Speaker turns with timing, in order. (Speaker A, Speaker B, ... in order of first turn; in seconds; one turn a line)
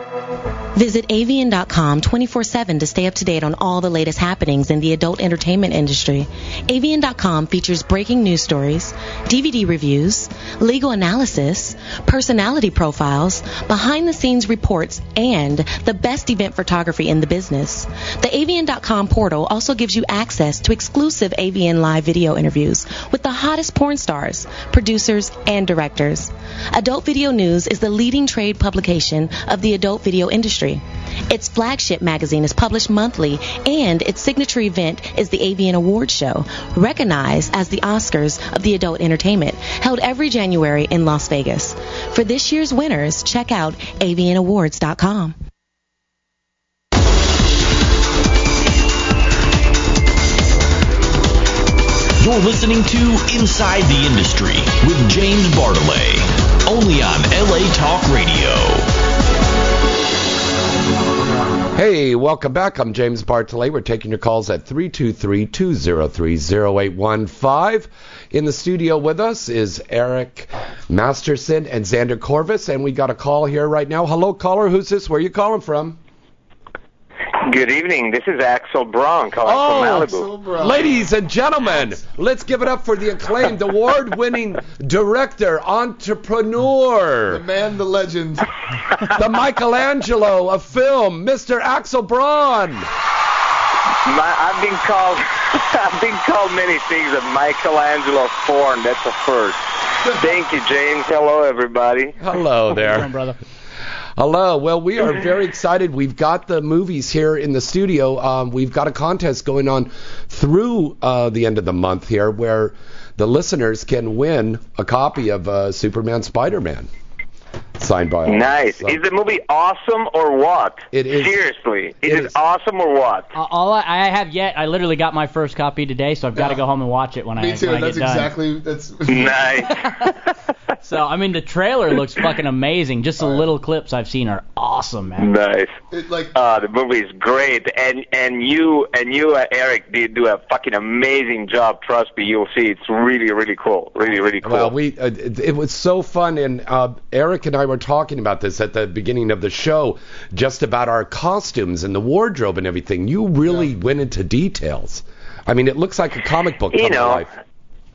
Speaker A: 0.8-45.4
Speaker B: 52.2-58.9
Speaker C: 61.7-76.0
Speaker D: 77.4-80.3
Speaker C: 79.4-87.4
Speaker E: 80.0-81.1
Speaker E: 87.3-88.5
Speaker C: 89.2-92.9
Speaker D: 94.0-102.2
Speaker C: 102.2-103.1
Speaker F: 102.7-103.4
Speaker C: 104.2-116.9
Speaker C: 117.8-119.0
Speaker D: 118.3-123.3
Speaker C: 120.9-121.4
Speaker C: 122.0-122.3
Speaker F: 123.3-128.3
Speaker E: 126.4-126.6
Speaker E: 127.4-129.5
Speaker D: 129.1-129.8
Speaker F: 129.7-130.2
Speaker F: 130.8-135.3
Speaker D: 135.2-135.8
Speaker E: 135.9-136.3
Speaker D: 136.3-144.7
Speaker C: 144.4-157.3
Speaker D: 156.7-157.3